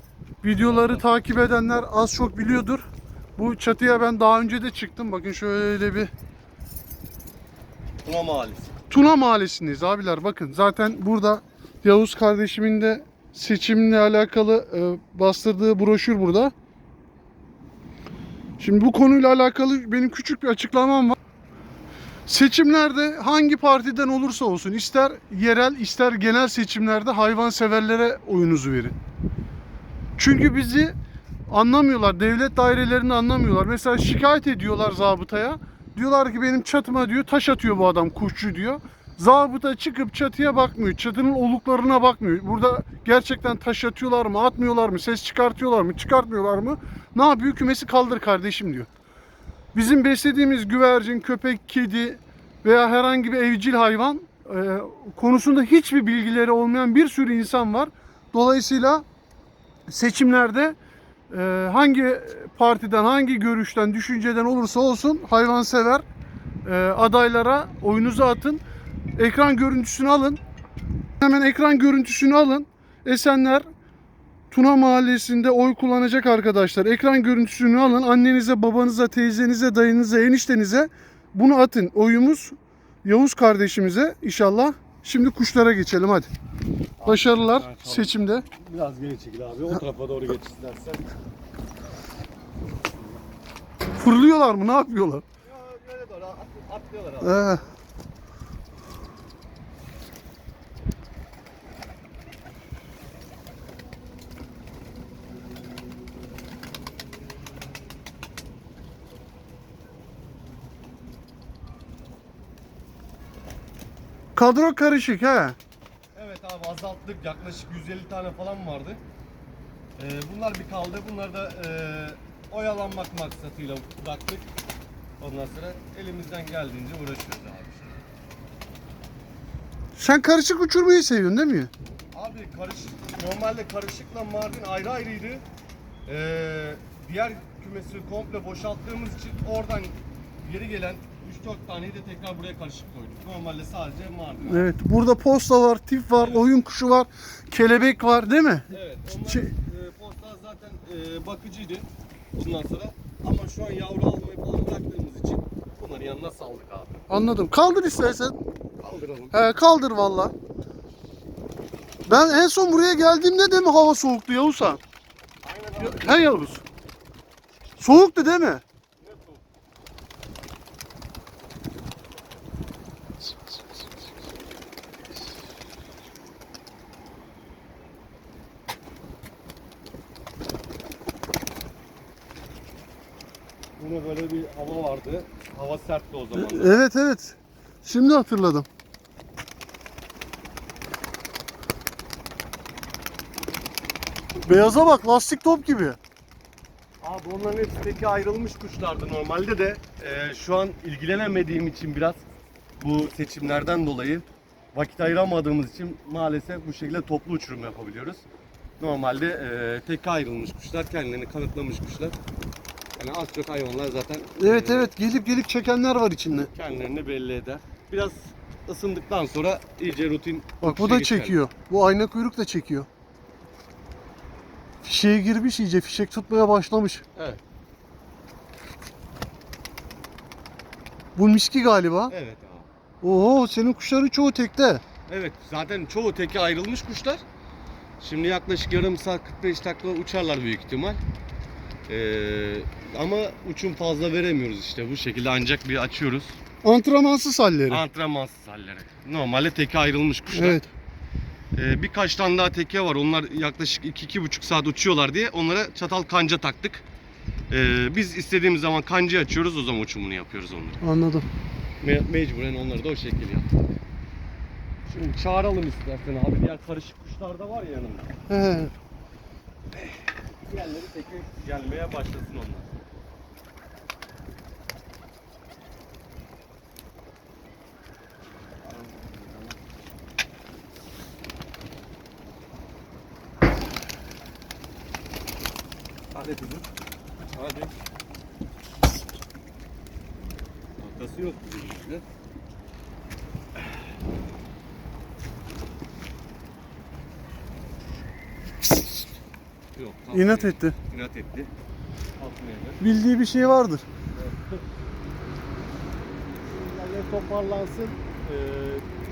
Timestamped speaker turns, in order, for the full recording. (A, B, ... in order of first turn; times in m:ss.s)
0:00.4-0:02.8 A
0:00.5-0:01.0 B
0:03.4-0:06.1 A
0:08.0-0:08.7 B
0:08.9-0:16.5 A
0:18.6-0:21.2 A
0:22.3-0:29.0 A
0:30.2-0:30.9 A
0:31.5-0:48.9 A
0:49.7-0:59.0 A
0:59.9-1:00.8 A
1:01.3-1:06.0 A
1:06.6-1:08.6 A
1:09.2-1:10.4 A
1:11.2-1:13.7 A
1:14.5-1:26.3 A
1:27.0-1:31.0 B
1:27.0-1:28.4 A
1:34.0-1:35.2 A
1:35.5-1:37.6 B
1:37.2-1:37.6 A
1:54.4-1:55.6 A
1:56.2-1:59.0 B
2:00.0-2:04.5 B
2:05.2-2:07.9 B
2:10.0-2:11.7 A
2:12.1-2:15.4 B
2:16.1-2:24.7 B
2:24.4-2:28.7 A
2:26.2-2:26.5 B
2:28.7-2:37.0 B
2:37.1-2:38.4 A
2:38.8-2:39.4 B
2:39.3-2:40.3 A
2:42.1-2:44.8 A
2:45.4-2:46.3 B
2:45.8-2:46.6 A
2:47.8-2:48.6 A
2:49.0-2:49.4 B
3:03.8-3:06.8 B
3:06.3-3:08.7 A
3:14.4-3:16.0 A
3:17.0-3:22.2 B
3:22.8-3:28.3 B
3:28.8-3:32.2 B
3:33.0-3:34.9 B
3:34.4-3:36.5 A
3:36.4-3:41.4 B
3:40.6-3:42.9 A
3:44.8-3:47.0 A
3:47.2-3:47.4 B
3:51.2-3:52.1 A
3:52.1-3:52.7 B
3:53.0-3:54.8 A
3:55.1-3:57.2 B
3:58.0-4:01.0 B
4:01.9-4:06.4 B
4:06.6-4:07.8 A
4:07.7-4:10.6 B
4:10.3-4:10.7 A
4:11.5-4:16.8 B
4:17.5-4:20.8 B
4:20.8-4:21.3 A
4:21.8-4:23.7 B
4:24.9-4:28.2 B
4:28.3-4:28.7 A
4:29.7-4:32.7 B
4:38.6-4:39.6 B
4:46.1-4:46.7 B
4:47.3-4:47.7 B
4:50.8-4:52.0 B
4:59.8-5:01.5 B
5:00.1-5:00.8 A
5:02.2-5:02.8 B
5:02.8-5:03.8 A
5:04.2-5:04.6 B
5:06.5-5:08.9 B